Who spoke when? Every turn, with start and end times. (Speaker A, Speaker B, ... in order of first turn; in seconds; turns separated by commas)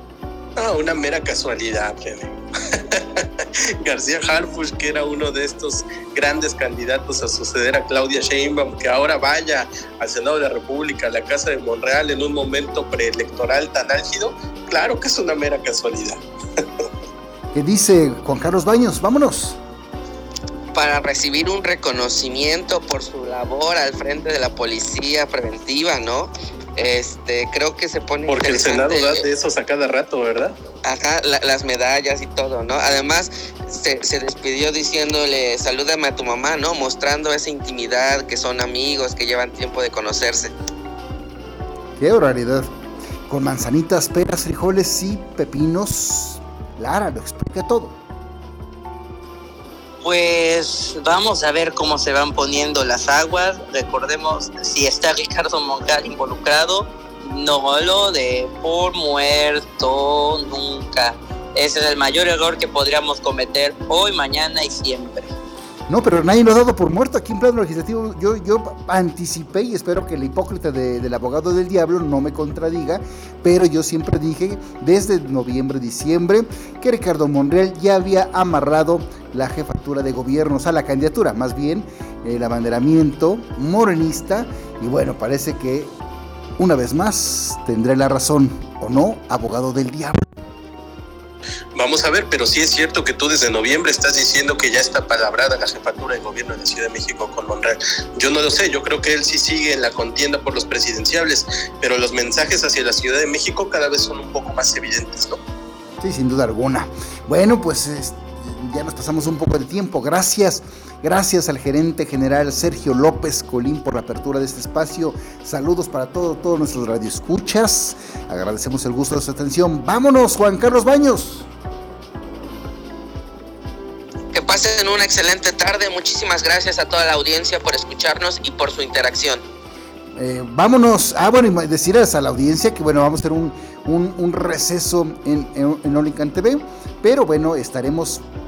Speaker A: 0.6-16.8, Speaker B: 17.5-19.6, Speaker C: 20.7-29.2, Speaker A: 28.3-30.6, Speaker C: 30.8-40.5, Speaker B: 42.0-42.7, Speaker B: 43.3-48.0, Speaker D: 50.0-65.3, Speaker B: 65.9-86.0, Speaker B: 86.6-90.4, Speaker A: 91.7-105.4, Speaker B: 106.0-121.5, Speaker C: 124.3-129.4, Speaker B: 130.2-138.2